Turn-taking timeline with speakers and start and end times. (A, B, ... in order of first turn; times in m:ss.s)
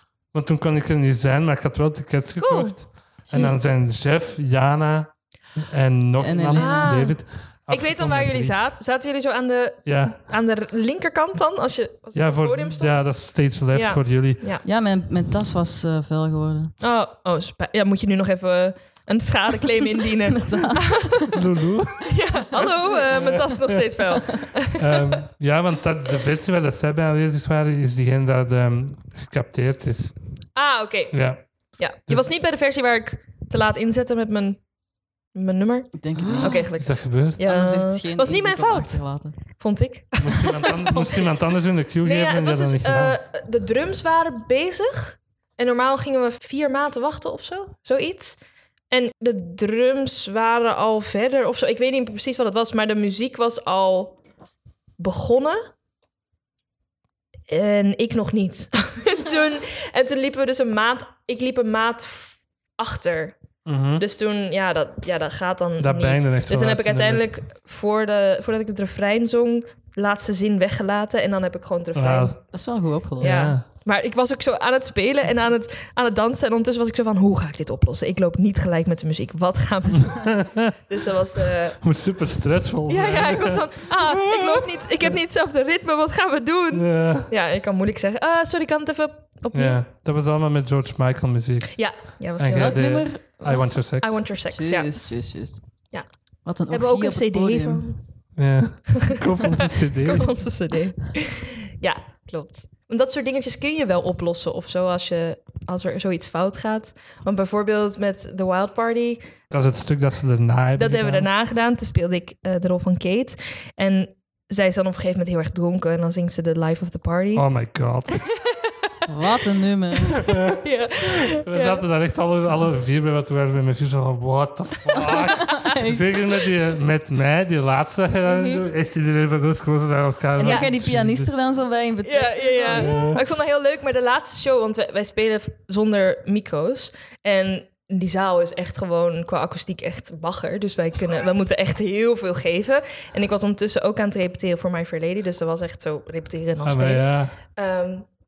0:00.3-0:08.5 A
0:02.4-0:03.7 B
0:06.2-0:07.1 C
0:06.5-0:14.6 B
0:09.8-0:10.2 A
0:12.1-0:14.4 A
0:14.6-0:16.7 C
0:16.8-0:21.3 B
0:20.3-0:21.2 C
0:21.3-0:24.0 A
0:22.0-0:25.2 B
0:24.7-0:30.1 A
0:30.6-0:34.6 B
0:31.1-0:31.4 A
0:35.3-0:41.3 B
0:36.0-0:36.7 C
0:36.3-0:37.5 A
0:37.4-0:39.4 C
0:40.2-0:43.2 A
0:42.0-0:48.4 B
0:48.9-0:54.2 B
0:55.0-0:55.7 B
0:57.5-1:03.4 B
1:03.6-1:04.0 A
1:04.0-1:12.5 B
1:05.8-1:07.3 A
1:11.9-1:12.4 A
1:12.5-1:13.5 C
1:13.2-1:13.6 A
1:13.2-1:21.8 B
1:20.1-1:20.7 A
1:21.8-1:25.2 A
1:22.9-1:29.8 B
1:26.7-1:27.3 A
1:29.5-1:34.2 A
1:31.7-1:35.1 B
1:32.5-1:33.3 C
1:34.5-1:35.6 C
1:36.4-1:37.8 C
1:36.7-1:38.0 B
1:38.4-1:40.3 A
1:39.0-1:49.2 B
1:49.5-1:51.3 A
1:50.8-1:57.4 B
1:57.3-1:58.2 A
1:59.1-2:00.2 C
2:00.2-2:11.4 A
2:00.4-2:01.8 B
2:05.4-2:06.0 C
2:08.2-2:08.6 B
2:10.4-2:13.1 C
2:10.4-2:10.7 B
2:12.0-2:28.1 B
2:12.7-2:13.2 A
2:26.6-2:27.3 A